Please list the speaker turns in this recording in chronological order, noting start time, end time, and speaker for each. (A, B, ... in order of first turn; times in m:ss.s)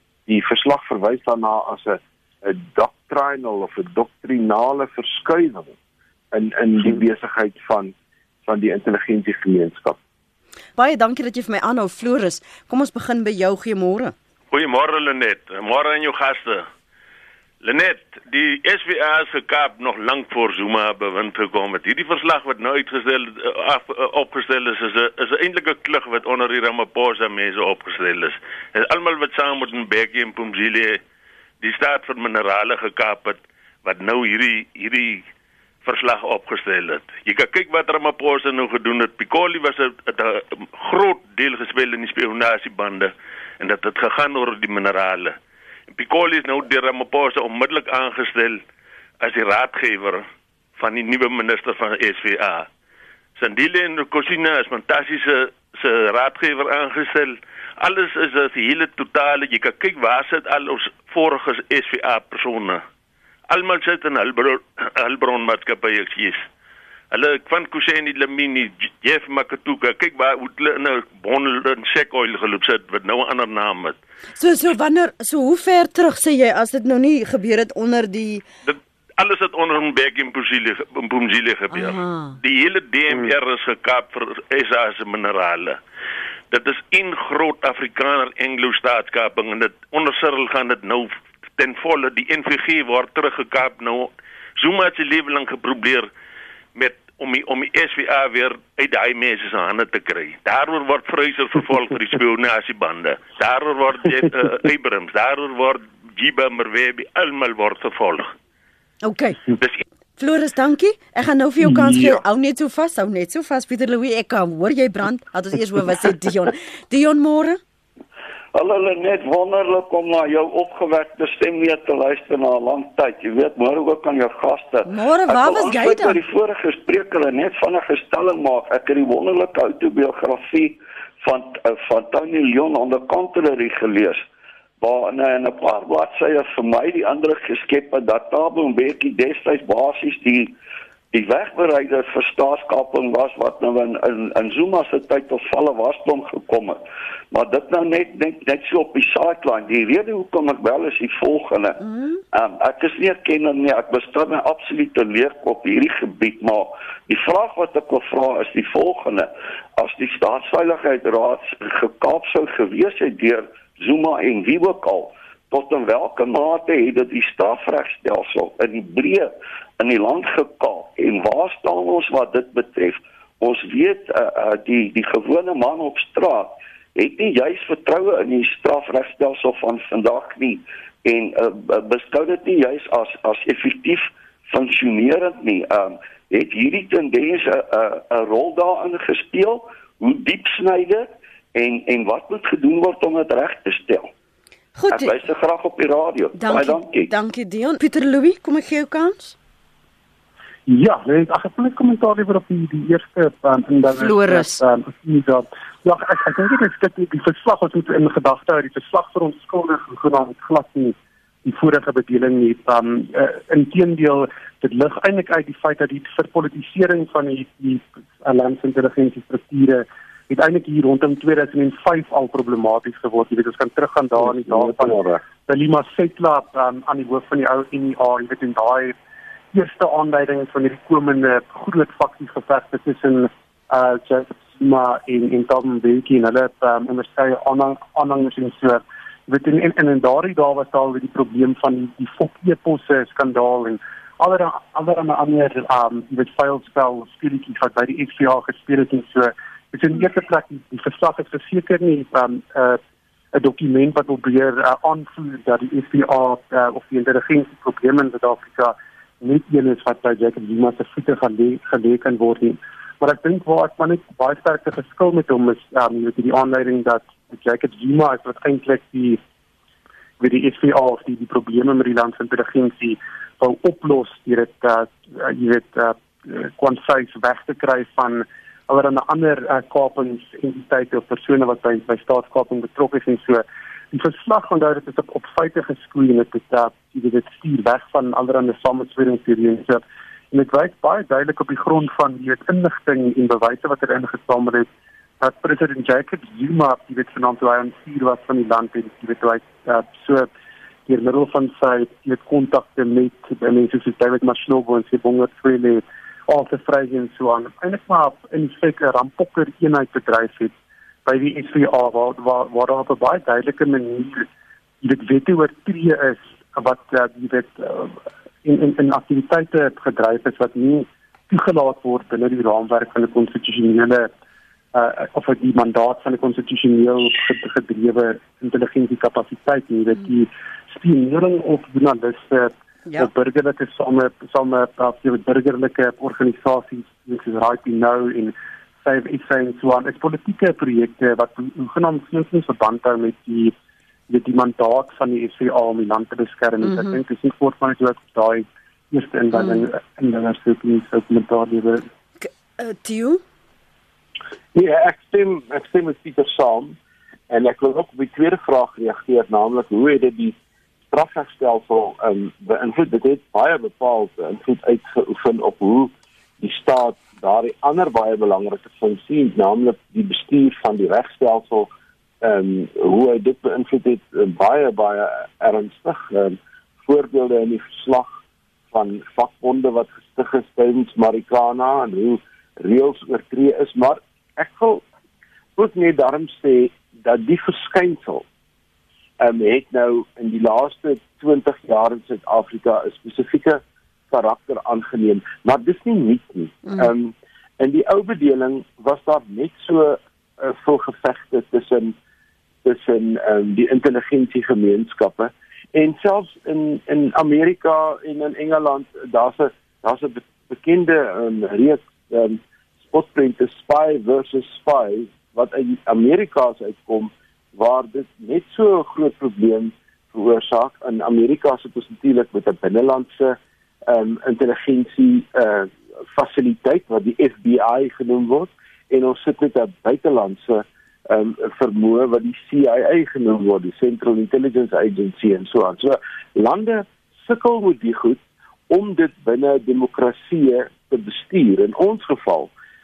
0:00.3-0:05.7 A
0:06.3-0:07.9 A
0:08.4-0:10.0 A
0:10.8-0:14.1 B
0:14.5-0:16.7 C
0:17.6-0:31.0 C
0:31.6-0:35.2 C
0:35.8-0:45.4 C
0:45.9-0:48.6 C
0:49.2-0:50.2 C
0:50.8-0:52.7 C
0:53.4-1:02.8 C
1:03.5-1:06.4 C
1:07.1-1:14.0 C
1:14.4-1:18.4 B
1:18.6-1:25.8 C
1:21.7-1:22.3 B
1:26.5-1:36.1 C
1:36.7-1:48.3 C
1:49.0-1:49.4 B
1:50.2-1:57.6 B
1:51.6-1:52.2 D
1:58.5-2:14.2 E
2:04.8-2:06.2 B
2:14.8-2:20.5 E
2:21.1-2:26.8 E
2:27.3-3:14.1 E
3:14.7-3:15.1 B
3:14.9-3:17.1 E
3:16.3-3:19.4 B
3:20.7-3:48.9 D
3:23.9-3:24.6 B
3:44.2-3:45.2 A
3:49.5-4:12.8 D
4:13.3-4:29.2 D
4:30.2-4:54.7 D
4:55.2-5:00.3 D
5:00.9-5:10.5 D
5:11.0-5:14.3 D
5:14.8-5:24.1 D
5:24.7-5:43.5 D
5:44.1-5:51.8 D
5:46.6-5:47.0 B
5:49.3-5:49.6 B
5:52.2-5:53.2 B
5:54.5-5:56.8 A
5:57.3-6:00.4 A
6:00.9-6:11.7 A
6:12.2-6:18.2 A
6:18.7-6:24.8 A
6:25.6-6:28.2 A
6:29.2-6:41.9 A
6:42.6-7:22.5 A